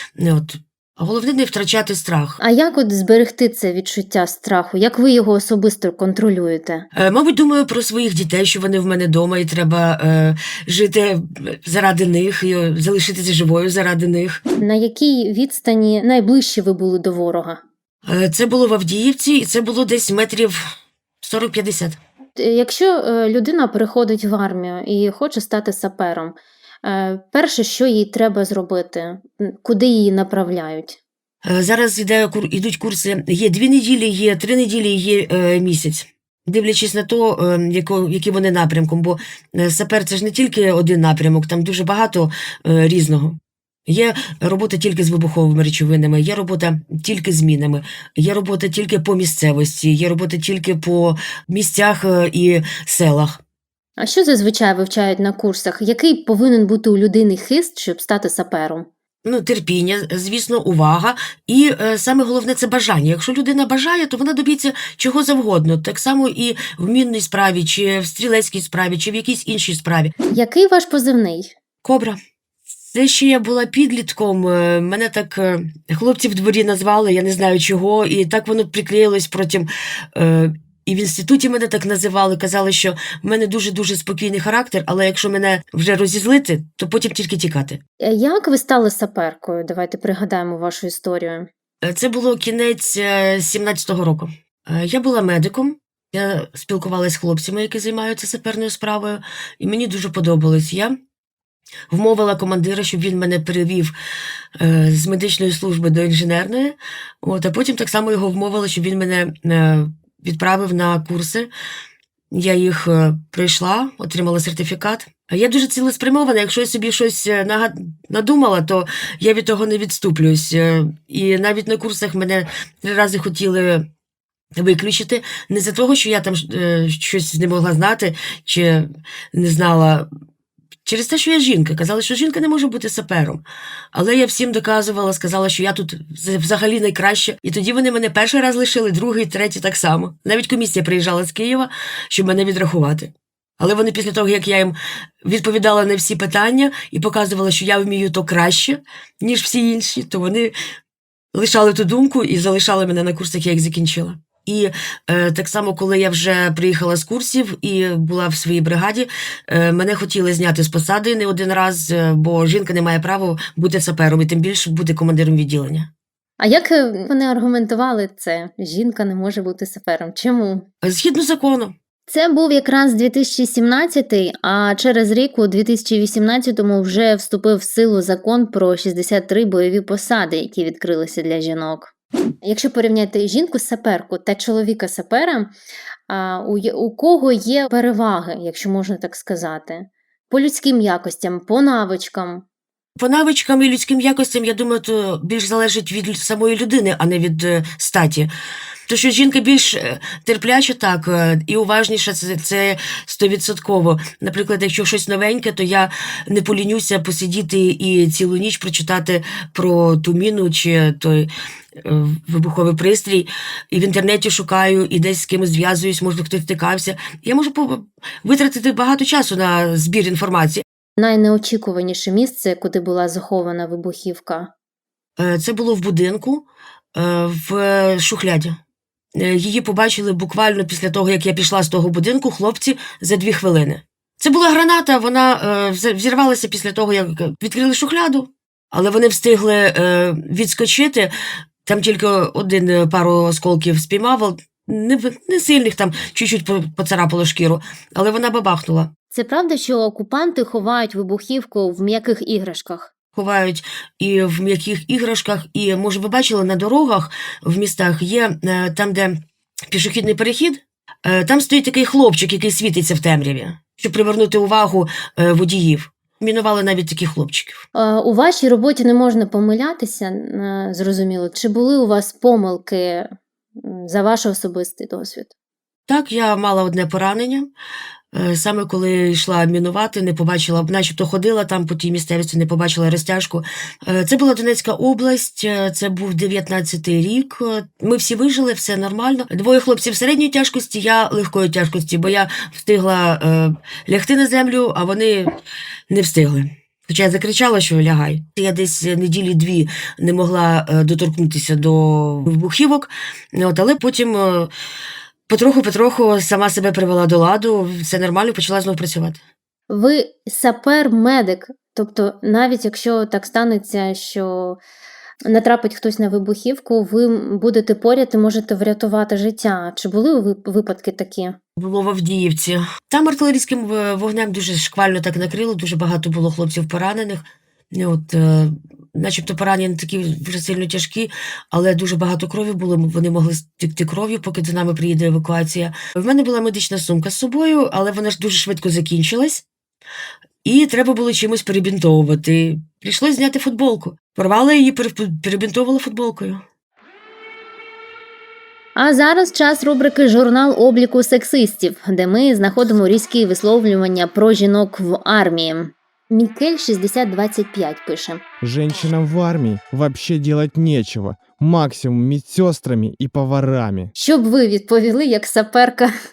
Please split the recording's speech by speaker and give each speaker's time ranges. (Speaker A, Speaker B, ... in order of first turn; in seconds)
Speaker A: 0.2-2.4, 6.9-14.4, 18.1-20.6, 21.2-22.0, 31.4-53.4, 59.2-70.1, 71.8-72.2, 72.8-87.8, 91.8-101.0, 101.9-103.9, 104.6-111.5, 112.3-123.8, 124.6-130.1, 130.9-150.5, 151.3-165.9, 170.8-171.7, 193.0-198.3, 198.9-211.3, 211.8-220.6, 225.2-228.6, 229.2-241.1, 241.7-248.9, 253.2-259.2, 259.7-267.6, 275.9-277.5, 278.1-295.4, 295.9-304.5, 305.3-309.2, 321.6-339.4, 340.4-346.4
Speaker B: 2.4-6.9, 14.6-17.6, 22.4-31.0, 54.0-58.9, 70.3-71.5, 88.0-91.5, 166.4-170.7, 172.1-181.9, 182.4-185.5, 186.1-192.4, 221.0-224.5, 249.1-252.9, 267.8-273.1, 273.6-275.3, 309.7-314.6, 315.3-321.4, 348.8-358.2, 364.0-365.9
Speaker C: 358.4-363.9